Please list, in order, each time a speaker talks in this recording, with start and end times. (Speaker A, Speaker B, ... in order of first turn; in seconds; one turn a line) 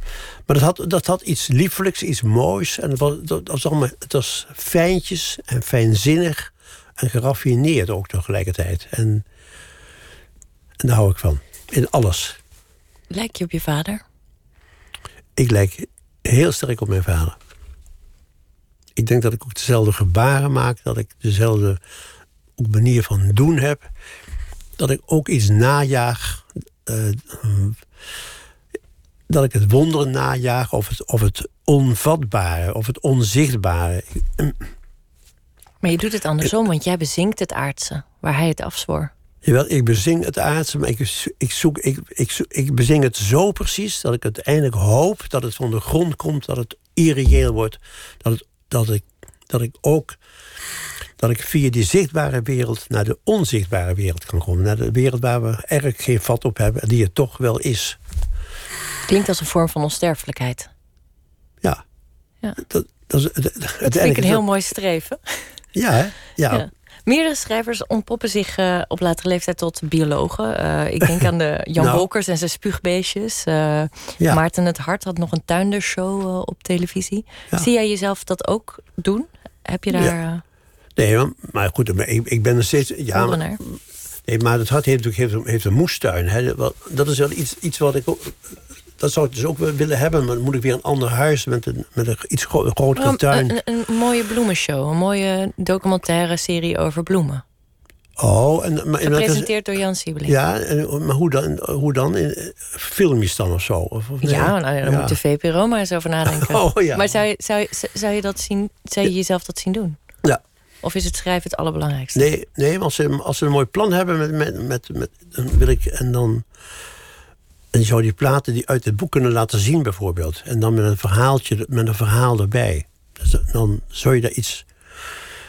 Speaker A: 0.5-9.2
Speaker A: 10.8-12.4
Speaker B: 13.1-14.0
Speaker A: 15.4-17.4
Speaker A: 19.0-21.8
Speaker A: 22.6-23.9
Speaker A: 24.8-27.8
Speaker A: 29.3-34.6
Speaker B: 35.8-39.1
Speaker A: 39.4-50.2
Speaker A: 51.2-58.0
Speaker B: 59.1-60.7
Speaker A: 62.6-64.5
Speaker B: 63.8-65.5
Speaker A: 65.8-66.7
Speaker B: 66.5-80.4
Speaker A: 71.8-72.0
Speaker A: 81.0-88.4
Speaker B: 83.1-83.6
Speaker A: 89.0-93.5
Speaker B: 93.0-97.4
Speaker A: 98.2-99.5
Speaker B: 99.0-100.3
Speaker A: 100.3-105.2
Speaker B: 104.2-110.0
Speaker A: 106.3-107.1
Speaker B: 110.8-112.3
Speaker A: 112.2-116.5
Speaker A: 117.7-124.7